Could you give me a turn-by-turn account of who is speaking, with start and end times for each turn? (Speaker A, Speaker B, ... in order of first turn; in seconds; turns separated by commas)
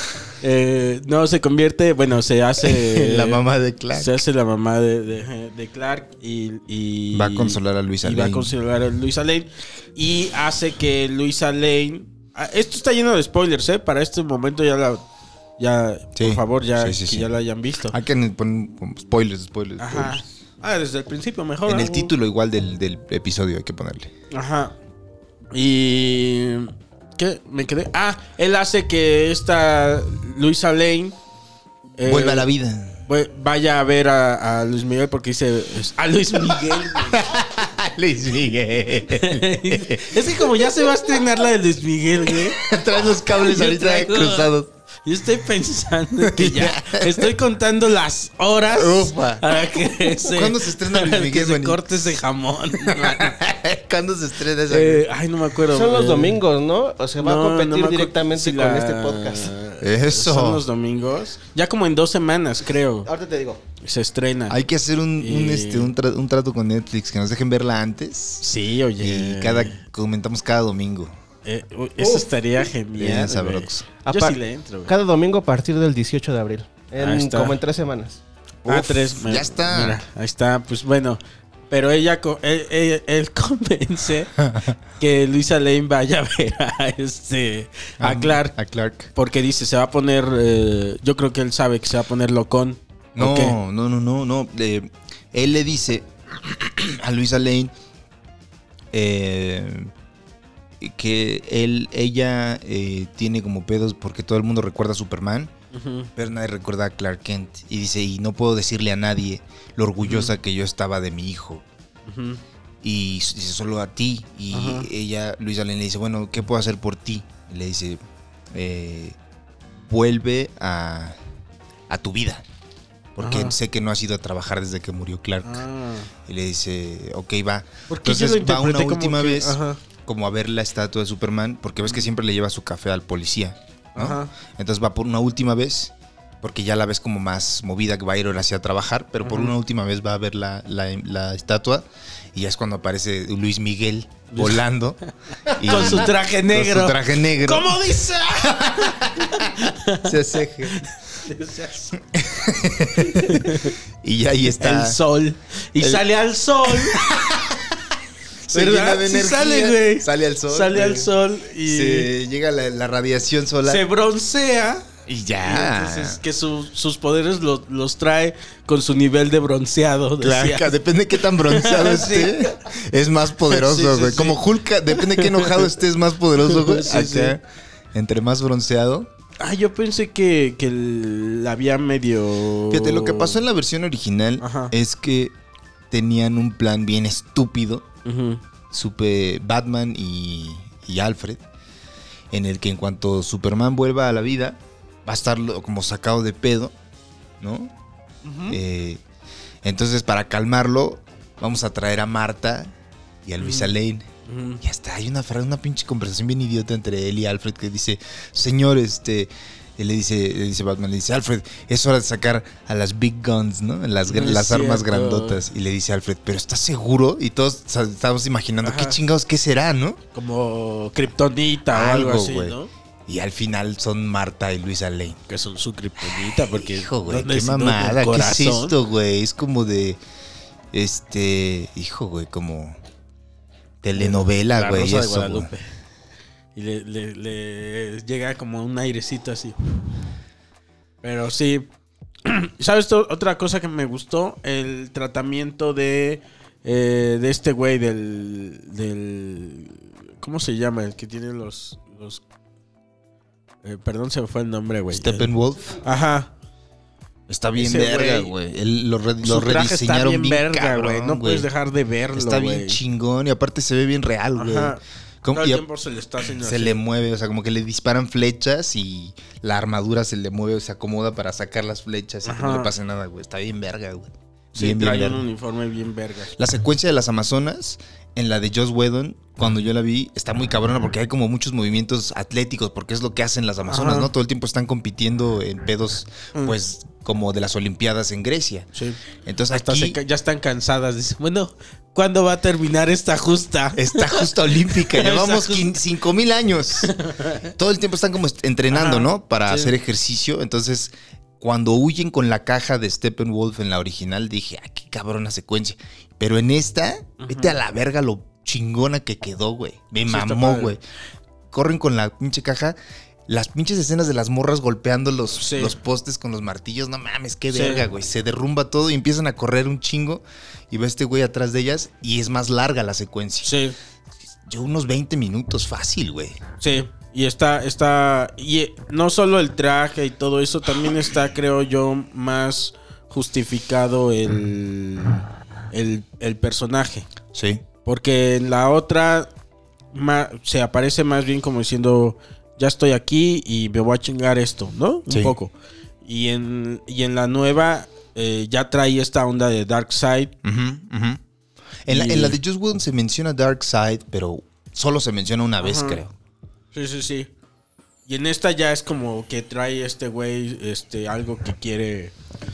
Speaker A: 0.4-3.4, Speaker B: 2.6-4.2, Speaker A: 3.9-15.0, Speaker B: 7.1-8.5, Speaker A: 15.6-17.9, Speaker B: 16.1-17.3, Speaker B: 17.9-20.2, Speaker A: 19.8-22.1, Speaker B: 21.6-24.1, Speaker A: 24.3-24.8, Speaker A: 25.5-31.1, Speaker A: 32.0-32.5, Speaker B: 32.0-33.0, Speaker A: 33.1-37.2, Speaker B: 36.5-40.2, Speaker A: 39.1-42.6, Speaker B: 40.8-41.1, Speaker B: 42.2-44.7, Speaker A: 43.4-44.5, Speaker A: 45.0-53.4, Speaker B: 46.2-47.3, Speaker B: 48.7-49.5, Speaker B: 50.1-51.8, Speaker B: 52.8-55.1, Speaker A: 54.7-56.4, Speaker C: 55.7-59.5, Speaker A: 57.2-63.1, Speaker B: 59.8-60.6, Speaker C: 63.0-63.6, Speaker A: 63.8-64.6, Speaker B: 64.5-68.4, Speaker A: 65.2-65.9, Speaker A: 68.4-69.8, Speaker B: 69.0-71.1, Speaker A: 71.4-74.9, Speaker C: 72.0-72.3, Speaker B: 72.9-73.8, Speaker C: 74.0-78.2, Speaker A: 77.0-77.6, Speaker B: 78.6-80.0, Speaker A: 78.7-84.3, Speaker B: 84.4-84.8, Speaker A: 85.0-88.5, Speaker B: 88.0-89.1, Speaker A: 89.1-93.6, Speaker B: 93.2-97.7, Speaker B: 98.9-99.9, Speaker B: 100.8-105.5, Speaker A: 105.7-106.1, Speaker B: 106.2-111.6, Speaker A: 110.0-110.3, Speaker A: 112.1-112.4, Speaker B: 112.8-118.0, Speaker A: 114.5-114.9, Speaker B: 118.5-119.2, Speaker B: 119.8-121.2, Speaker B: 121.9-122.4, Speaker B: 123.2-125.6, Speaker A: 123.2-123.5, Speaker A: 125.4-126.1, Speaker B: 126.2-145.0, Speaker A: 127.9-129.8, Speaker A: 133.9-134.3, Speaker A: 139.2-139.5, Speaker A: 144.3-144.6, Speaker A: 145.5-150.1, Speaker B: 145.5-147.8, Speaker B: 148.3-149.5, Speaker B: 150.0-150.8, Speaker A: 150.7-152.0, Speaker B: 152.1-155.0, Speaker A: 152.9-153.8, Speaker A: 154.6-157.1, Speaker B: 155.8-156.1, Speaker B: 156.6-157.8, Speaker B: 158.4-161.1, Speaker A: 158.5-162.1, Speaker B: 161.6-163.8, Speaker A: 163.6-164.8, Speaker B: 165.1-166.2, Speaker A: 165.4-170.8, Speaker B: 170.2-177.4, Speaker A: 171.3-172.6, Speaker A: 173.5-174.4, Speaker A: 174.9-175.7, Speaker A: 176.4-177.3, Speaker B: 177.9-179.1, Speaker A: 179.4-183.4, Speaker B: 182.7-185.3, Speaker A: 184.4-184.7, Speaker B: 185.9-187.8, Speaker A: 188.0-188.4, Speaker B: 188.7-191.4, Speaker B: 192.3-196.7, Speaker B: 197.4-197.7, Speaker A: 198.2-198.6, Speaker B: 198.5-199.0, Speaker B: 199.6-202.7, Speaker B: 203.2-204.1, Speaker A: 203.4-203.7, Speaker A: 204.3-204.6, Speaker B: 204.6-220.0, Speaker A: 214.1-215.4, Speaker A: 218.6-219.0, Speaker A: 220.1-222.7, Speaker B: 221.7-222.6, Speaker B: 223.1-225.2, Speaker A: 225.3-228.8, Speaker B: 226.0-230.0, Speaker B: 230.7-232.8, Speaker B: 233.8-235.5, Speaker A: 233.9-235.6, Speaker A: 236.5-239.6, Speaker A: 241.0-241.7, Speaker A: 242.2-252.2, Speaker A: 253.6-255.3, Speaker B: 254.9-255.8, Speaker A: 255.8-256.3, Speaker B: 257.3-261.5, Speaker A: 257.6-258.3, Speaker A: 259.2-262.8, Speaker B: 262.1-265.6, Speaker A: 264.4-264.8, Speaker A: 265.3-266.8, Speaker B: 266.2-275.2, Speaker A: 272.2-272.7, Speaker A: 274.6-276.3, Speaker B: 276.4-288.7, Speaker A: 283.7-284.1, Speaker B: 289.2-290.0, Speaker A: 289.5-295.8, Speaker B: 293.7-296.9, Speaker A: 296.8-297.5, Speaker B: 297.5-310.8, Speaker A: 298.7-299.7, Speaker A: 307.2-307.6, Speaker A: 310.1-310.7, Speaker B: 311.5-312.8, Speaker B: 313.3-323.5, Speaker A: 315.4-315.7, Speaker A: 317.5-317.9, Speaker A: 323.4-323.8, Speaker B: 324.4-326.4, Speaker A: 326.6-337.1, Speaker B: 337.3-337.6, Speaker A: 337.8-339.3, Speaker A: 339.9-345.5, Speaker B: 345.1-345.3, Speaker A: 346.0-350.3, Speaker B: 350.4-351.2, Speaker B: 351.9-356.1, Speaker A: 351.9-352.4, Speaker A: 355.6-356.0, Speaker A: 356.7-357.3, Speaker A: 358.1-362.1